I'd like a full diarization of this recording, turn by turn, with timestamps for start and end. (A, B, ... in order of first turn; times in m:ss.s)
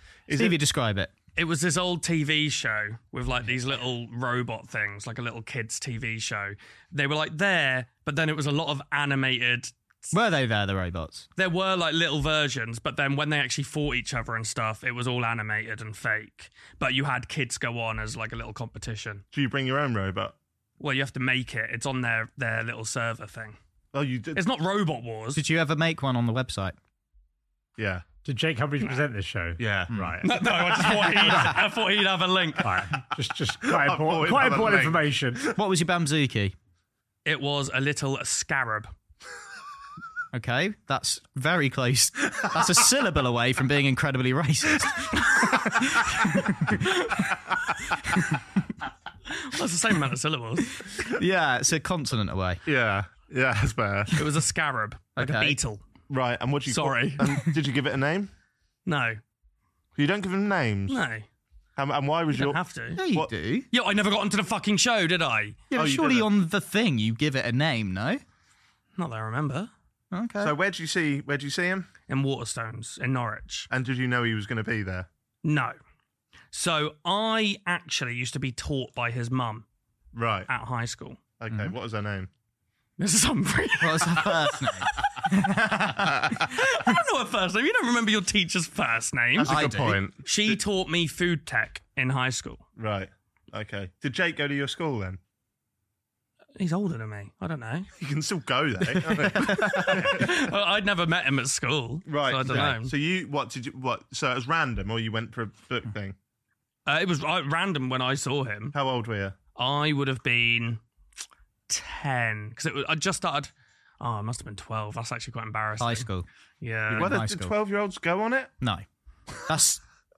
0:00.3-0:00.6 A
0:00.3-0:01.1 B
0:01.4-0:09.8 C
0:10.1-0:11.3 B
0:11.4-0:19.2 C
0:19.3-0:20.4 A
0:20.8-0:23.6 C
0:23.9-0:24.4 A
0:24.3-0:25.4 C
0:25.4-0:26.8 B
0:27.8-0:28.0 A
0:28.2-0:31.6 D
0:29.6-0:30.2 A
0:30.2-0:32.8 C
0:30.9-0:31.6 B
0:32.6-0:35.4 D
0:33.7-0:35.5 A
0:35.5-0:36.5 B
0:37.2-0:38.9 C
0:40.3-0:48.4 B
0:49.3-0:50.8 C
0:51.0-0:52.6 B
0:52.7-0:54.2 A
0:54.2-0:55.8 C
0:55.2-0:55.6 B
0:56.1-0:58.3 A
0:56.7-0:57.5 C
0:58.9-0:59.2 C
1:00.0-1:01.0 A
1:00.9-1:01.3 C
1:01.8-1:03.3 A
1:02.3-1:03.0 C
1:03.0-1:03.7 B
1:03.7-1:05.6 C
1:05.7-1:08.2 B
1:05.7-1:06.3 A
1:09.0-1:09.7 C
1:10.1-1:10.5 B
1:10.4-1:11.9 A
1:12.1-1:13.7 C
1:13.7-1:15.1 A
1:15.4-1:15.8 C
1:16.5-1:19.6 C
1:20.1-1:20.5 A
1:20.5-1:21.2 C
1:21.4-1:22.3 A
1:23.0-1:25.2 C
1:23.8-1:26.9 B
1:26.3-1:32.6 C
1:29.4-1:30.6 A
1:29.4-1:30.0 B
1:32.8-1:35.2 A
1:36.6-1:37.9 C
1:38.0-1:40.4 A
1:39.1-1:40.1 B
1:39.6-1:42.9 C
1:42.1-1:46.2 A
1:46.9-1:48.8 C
1:48.7-1:49.4 A
1:49.6-1:50.8 C
1:51.7-1:56.1 C
1:55.8-1:56.3 B
1:56.6-1:57.2 C
1:56.9-1:57.6 B
1:56.9-1:58.5 A
1:59.5-1:59.8 B